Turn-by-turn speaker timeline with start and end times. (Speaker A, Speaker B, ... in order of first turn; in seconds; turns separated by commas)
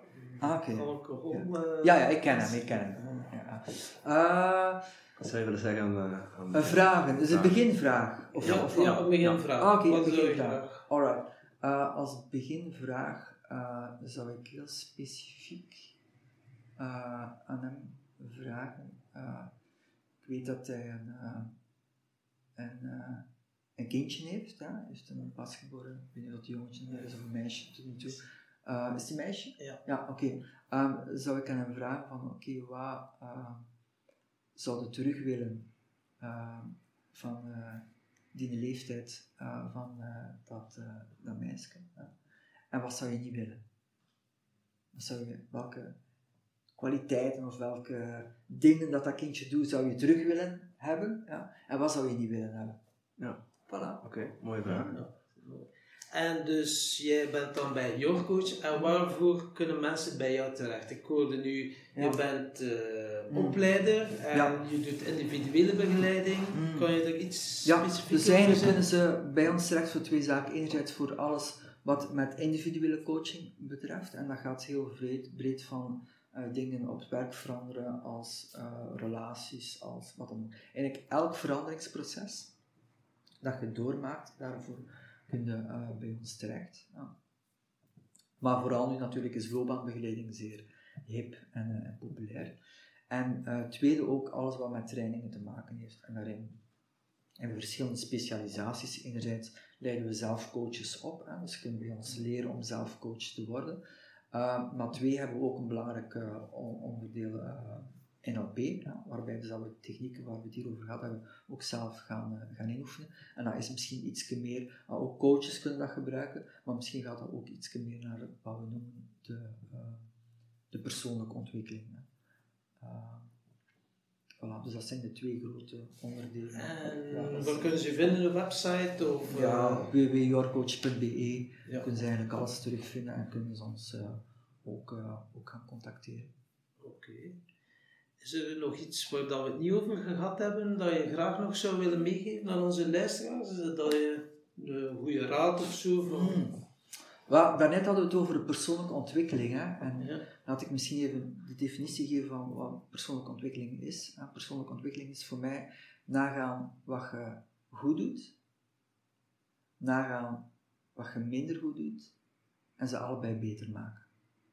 Speaker A: 0.2-3.3, Speaker B: 0.4-4.8, Speaker C: 5.2-7.6, Speaker B: 6.5-15.9, Speaker A: 8.4-10.8, Speaker C: 8.4-9.4, Speaker B: 16.8-19.5, Speaker B: 20.2-21.5, Speaker B: 22.6-33.7, Speaker B: 34.5-35.7, Speaker B: 36.2-42.1, Speaker B: 42.7-43.6, Speaker B: 44.9-46.0, Speaker B: 46.8-52.8, Speaker B: 53.7-54.0, Speaker C: 54.0-55.0, Speaker B: 54.6-55.0, Speaker A: 54.9-68.8, Speaker B: 61.9-62.2, Speaker B: 63.3-63.6, Speaker B: 64.3-64.6, Speaker B: 66.5-66.9, Speaker B: 67.6-82.5, Speaker B: 83.4-87.1, Speaker B: 88.4-92.5, Speaker B: 93.1-96.6, Speaker B: 97.4-103.8, Speaker B: 104.3-120.1, Speaker B: 120.7-122.1, Speaker B: 122.8-123.3, Speaker B: 124.4-127.8, Speaker A: 126.5-129.9, Speaker B: 129.3-136.3, Speaker A: 136.8-137.4, Speaker A: 138.2-146.4, Speaker B: 146.1-146.6, Speaker B: 147.3-158.3, Speaker A: 150.0-150.2, Speaker B: 159.8-162.1, Speaker B: 162.8-164.1